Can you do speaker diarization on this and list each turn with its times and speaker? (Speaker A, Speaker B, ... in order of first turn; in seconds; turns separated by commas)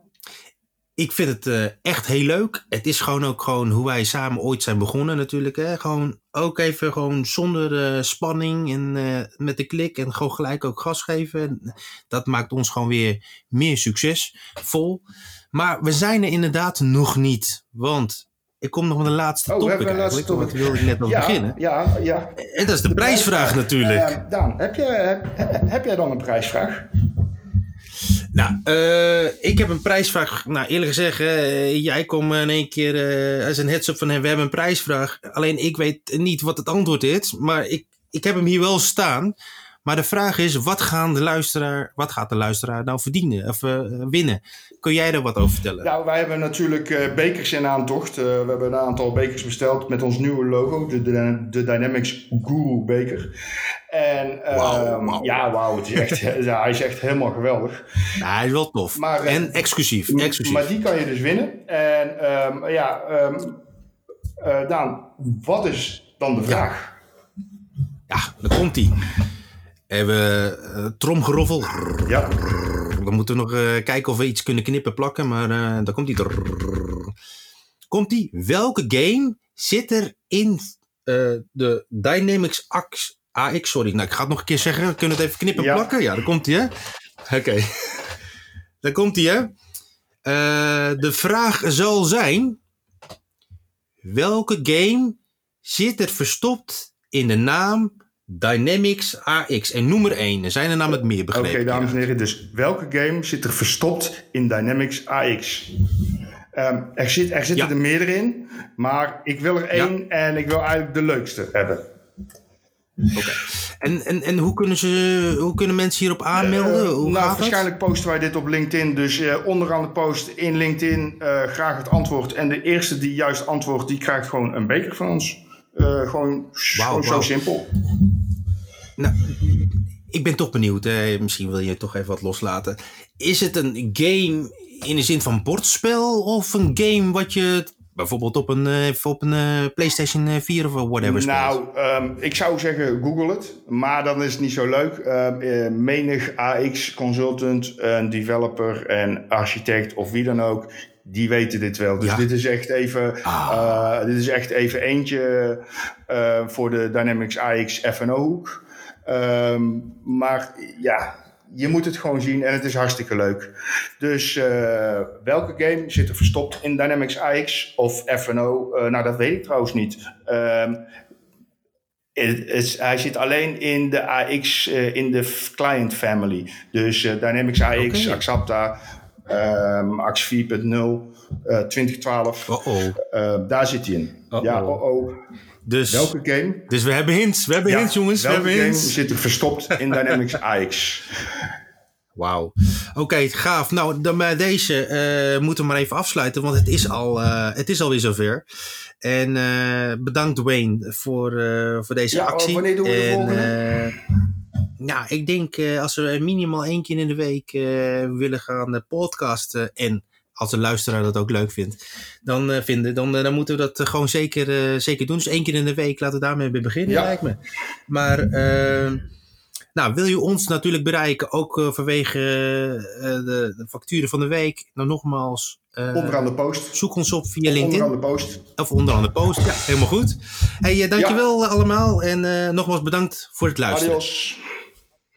Speaker A: 1.0-21.6, Speaker B: 19.5-26.9, Speaker A: 22.4-24.2, Speaker A: 28.3-45.9, Speaker B: 45.8-53.3, Speaker B: 53.9-57.8, Speaker A: 54.5-55.4, Speaker A: 58.2-60.7, Speaker B: 59.0-59.5, Speaker B: 60.1-63.6, Speaker B: 64.4-67.0, Speaker A: 68.1-69.0, Speaker A: 69.9-77.1, Speaker B: 72.1-72.4, Speaker A: 77.9-86.7, Speaker B: 85.5-85.9, Speaker A: 87.3-88.1, Speaker A: 88.8-89.5, Speaker A: 90.3-92.6, Speaker A: 94.0-102.0, Speaker B: 101.3-105.7, Speaker B: 106.5-111.8, Speaker A: 113.2-117.7, Speaker B: 116.3-127.7, Speaker A: 126.8-127.3, Speaker A: 129.0-141.6, Speaker B: 141.0-170.8, Speaker A: 153.2-153.9, Speaker B: 172.2-178.8, Speaker A: 177.8-178.2, Speaker B: 179.3-185.2, Speaker A: 182.5-183.0, Speaker A: 184.3-184.8, Speaker A: 185.7-186.1, Speaker B: 185.9-186.7, Speaker A: 186.7-189.0, Speaker B: 187.7-191.2, Speaker A: 189.8-190.2, Speaker A: 192.2-198.4, Speaker A: 199.0-204.0, Speaker B: 202.1-203.7, Speaker A: 204.8-219.0, Speaker B: 216.9-217.2, Speaker A: 219.8-234.0, Speaker B: 225.9-226.8, Speaker B: 227.5-228.4, Speaker B: 233.7-234.4